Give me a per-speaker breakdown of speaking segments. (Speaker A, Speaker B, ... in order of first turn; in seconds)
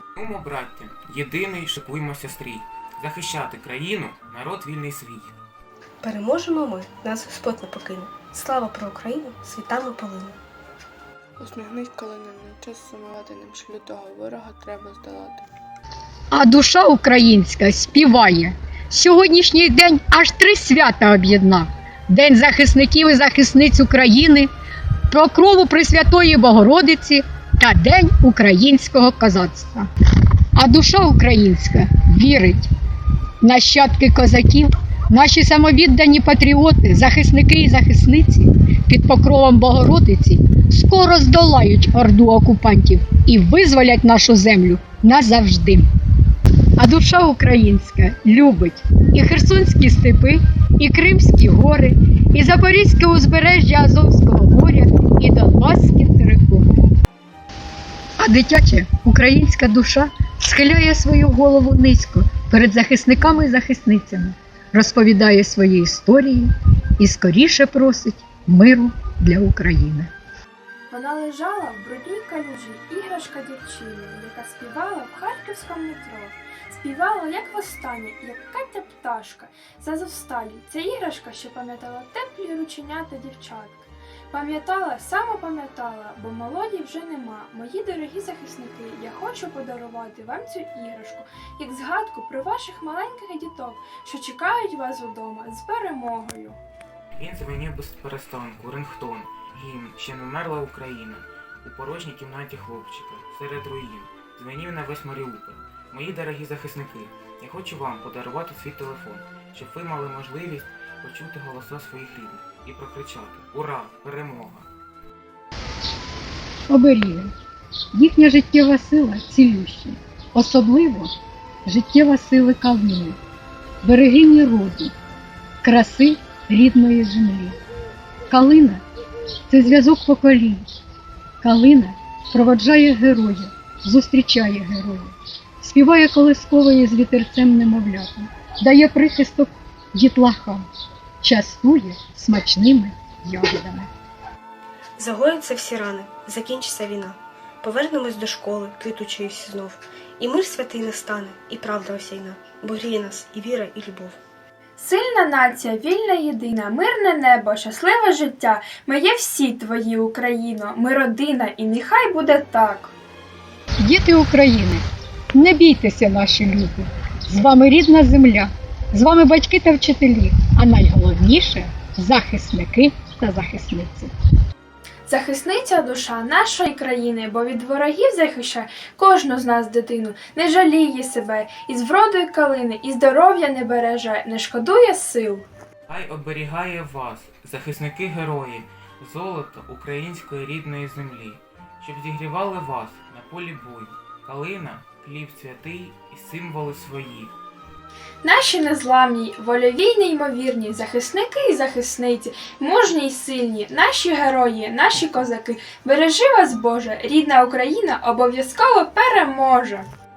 Speaker A: 0.2-5.4, 97.2-114.7, 185.9-197.3
Speaker B: 6.0-10.4, 145.0-154.2
Speaker C: 11.4-15.5
Speaker D: 16.3-24.5, 25.1-29.9, 30.6-32.7, 33.4-45.9, 46.8-56.7, 58.2-70.1, 116.7-117.3, 117.9-121.1, 121.7-123.2, 123.8-124.9, 125.6-127.6, 128.3-128.8, 129.5-130.7, 131.4-140.7, 141.2-143.9, 163.8-174.1
Speaker E: 70.9-96.6, 154.8-162.9, 175.1-185.5, 198.2-209.9